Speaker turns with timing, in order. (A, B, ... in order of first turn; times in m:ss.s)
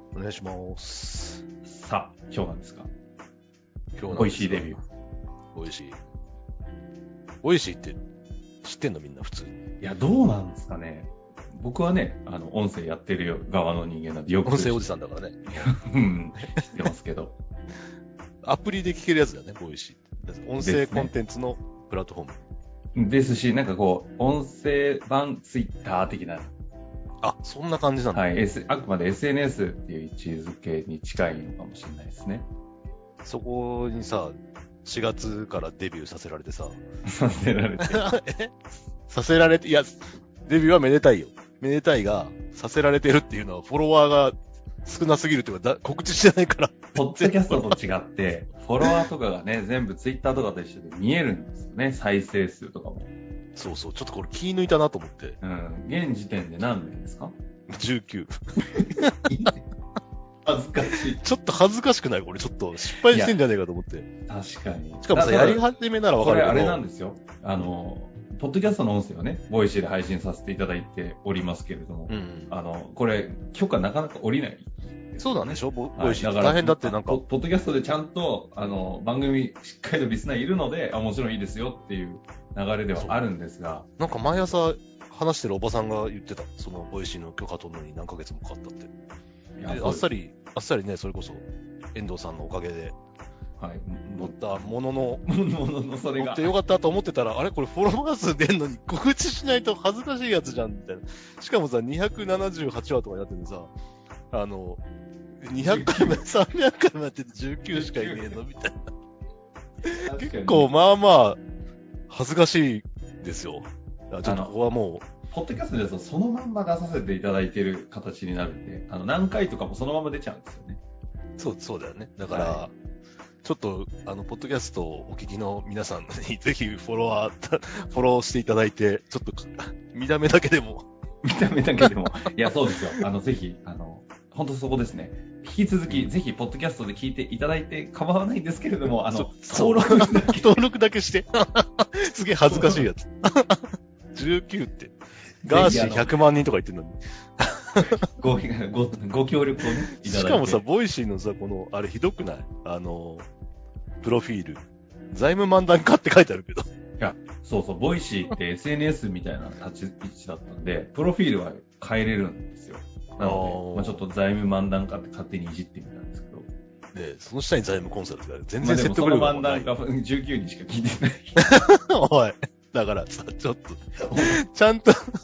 0:00.1-0:01.4 A
0:01.6-0:02.9 B
0:03.9-0:04.8 A
0:04.1-0:04.8 B
0:05.5-0:06.0 A
0:07.4-0:08.0 A
0:08.6-0:09.6 A
0:09.8-0:14.8 B
0:14.4-0:15.8 A
0:15.6-0:17.4 B
0:18.4-0:22.4 A
0:20.6-0:21.1 B
0:22.9-0:26.5 B
0:27.2-0:28.2 A
0:28.1-0:32.5 B
0:33.2-0:36.8 A
0:37.0-0:38.1 B
0:37.8-0:47.8 A
0:47.0-0:53.1 B
0:53.6-0:55.4 A
0:55.4-0:57.4 B
0:57.7-0:59.5 A
0:58.8-0:59.6 B
1:00.4-1:01.2 B
1:01.1-1:04.1 A
1:03.1-1:03.4 B
1:04.3-1:05.6 B
1:05.0-1:06.8 A
1:06.2-1:23.9 B
1:12.1-1:12.5 A
1:15.2-1:17.2 A
1:22.9-1:23.2 A
1:24.0-1:28.9 A
1:29.6-1:30.1 B
1:29.7-1:33.0 A
1:33.6-1:36.5 B
1:34.2-1:35.2 A
1:36.2-1:43.7 A
1:44.3-1:44.8 A
1:45.4-1:48.9 A
1:45.6-1:46.2 B
1:47.7-1:48.4 B
1:49.9-1:51.4 A
1:50.0-1:50.7 B
1:52.1-1:55.0 A
1:54.2-1:54.5 B
1:55.3-2:00.8 B
2:01.4-2:02.7 A
2:02.3-2:02.7 B
2:03.4-2:10.8 A
2:11.2-2:20.6 B
2:19.1-2:28.0 A
2:22.5-2:22.8 B
2:25.4-2:26.2 B
2:28.0-2:30.6 B
2:29.9-2:33.2 A
2:34.0-2:36.6 A
2:37.0-2:46.5 B
2:43.2-2:44.0 A
2:46.9-2:49.7 A
2:48.6-2:51.4 B
2:51.4-2:55.0 A